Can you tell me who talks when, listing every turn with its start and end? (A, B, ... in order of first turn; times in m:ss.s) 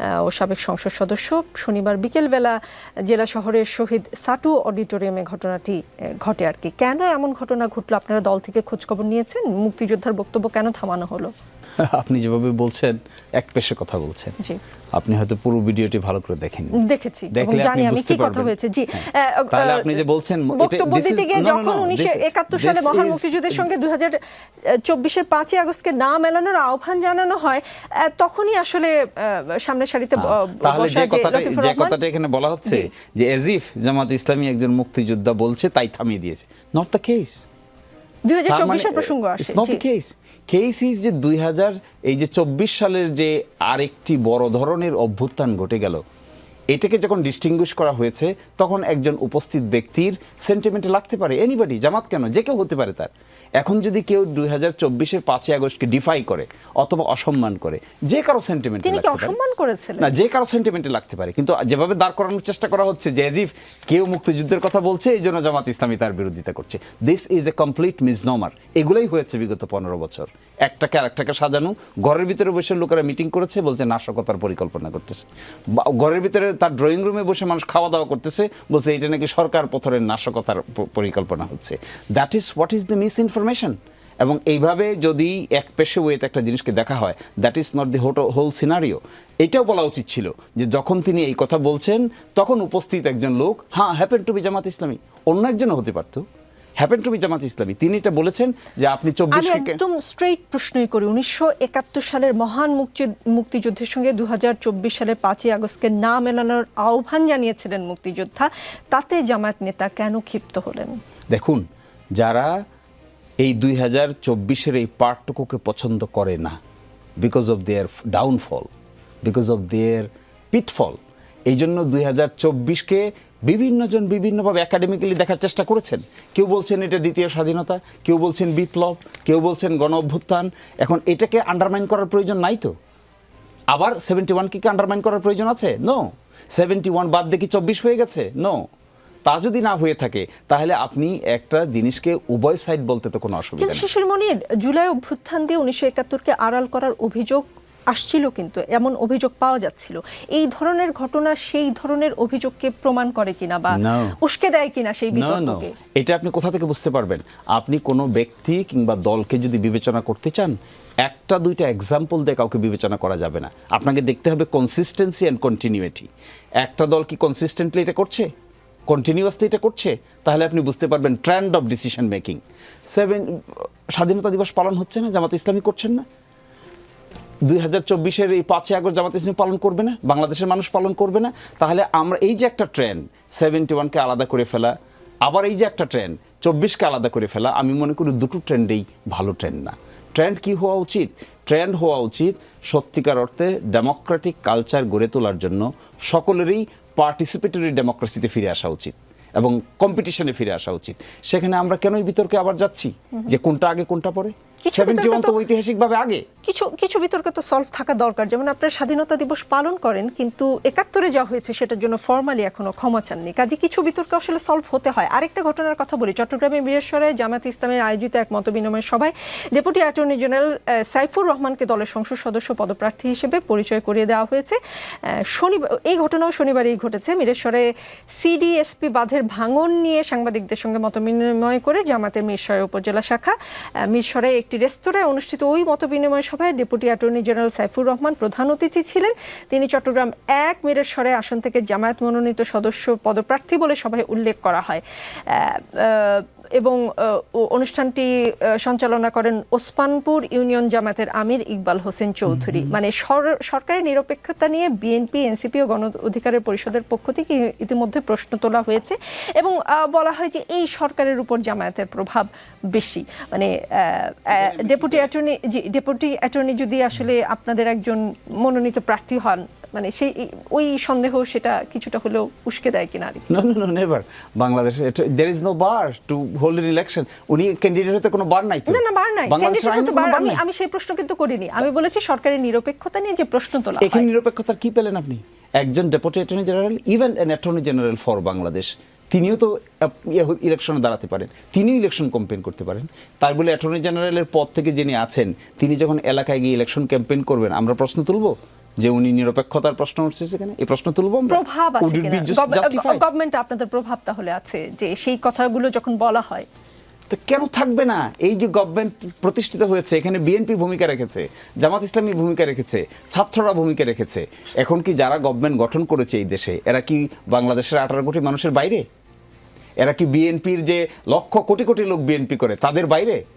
0:00.2-0:11.3 A
0:11.8-0:14.4 B
0:14.9-0:16.8 B
0:16.8-0:20.0 A
0:17.3-0:18.5 B
0:19.5-0:23.6 B
0:20.5-0:24.2 A
0:24.8-0:32.0 A
0:30.2-0:37.4 B
0:38.2-0:39.8 A
0:38.5-0:46.0 B
0:46.7-0:59.4 B
0:58.8-1:00.1 A
1:00.0-1:36.2 B
1:36.8-1:39.8 B
1:39.3-1:51.0 A
1:51.3-1:51.6 B
1:52.2-1:52.6 B
1:53.4-1:56.6 B
1:57.2-1:58.7 B
1:59.2-2:12.7 B
2:13.7-2:18.6 B
2:19.2-2:23.8 B
2:23.6-2:35.7 A
2:33.7-2:34.2 B
2:35.1-2:46.1 B
2:46.6-2:48.3 B
2:48.9-2:56.0 B
2:57.4-3:04.7 B
3:05.2-3:26.2 B
3:24.6-3:25.3 A
3:26.4-3:44.6 A
3:45.1-3:53.3 A
3:53.9-4:33.2 A
4:12.3-4:12.7 B
4:24.3-4:25.1 B
4:33.3-4:40.4 B
4:38.7-4:44.0 A
4:43.8-5:03.0 B
5:01.3-5:06.5 A
5:07.1-5:18.8 B
5:19.8-5:23.2 B